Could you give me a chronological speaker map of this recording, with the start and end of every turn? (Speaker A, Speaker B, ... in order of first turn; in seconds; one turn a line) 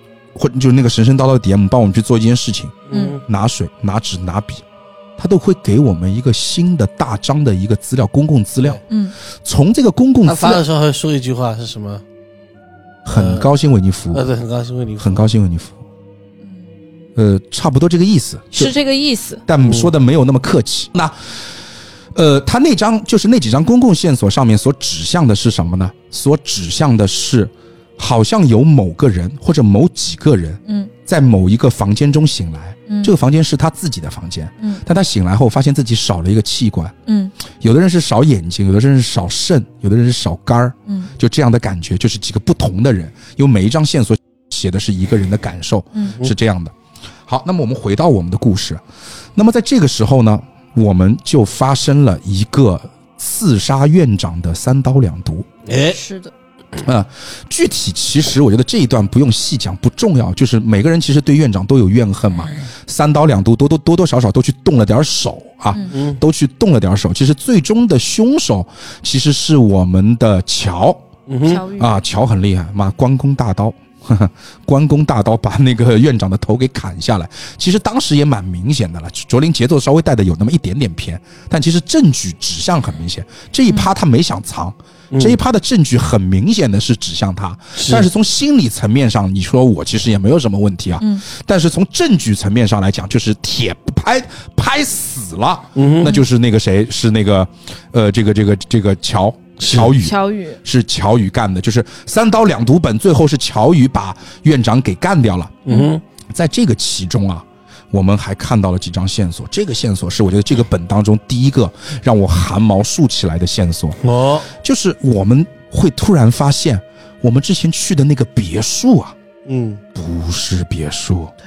Speaker A: 0.3-4.6
Speaker B: 2.9-3.2
Speaker C: 2.9-3.2
Speaker A: 5.2-8.8
Speaker C: 8.9-9.2
Speaker A: 9.4-10.6
Speaker B: 10.2-12.0
Speaker A: 13.1-14.2
Speaker B: 13.1-13.5
Speaker B: 14.1-15.3
Speaker A: 15.0-15.8
Speaker A: 17.2-18.7
Speaker C: 18.5-19.4
Speaker A: 19.5-21.2
Speaker B: 19.6-19.9
Speaker A: 22.1-37.0
Speaker C: 30.7-30.9
Speaker C: 37.1-37.3
Speaker A: 37.5-46.7
Speaker A: 47.3-48.8
Speaker A: 49.4-55.5
Speaker B: 55.7-56.0
Speaker C: 55.9-56.3
Speaker A: 56.8-71.0
Speaker B: 65.9-66.2
Speaker B: 71.3-71.6
Speaker C: 71.4-72.0
Speaker A: 71.8-105.6
Speaker B: 85.1-85.4
Speaker B: 87.8-88.1
Speaker B: 95.8-96.2
Speaker B: 99.6-99.9
Speaker C: 99.9-100.6
Speaker B: 105.7-106.0
Speaker A: 106.3-114.0
Speaker B: 114.0-114.5
Speaker A: 114.5-119.2
Speaker B: 119.5-119.8
Speaker A: 120.0-121.3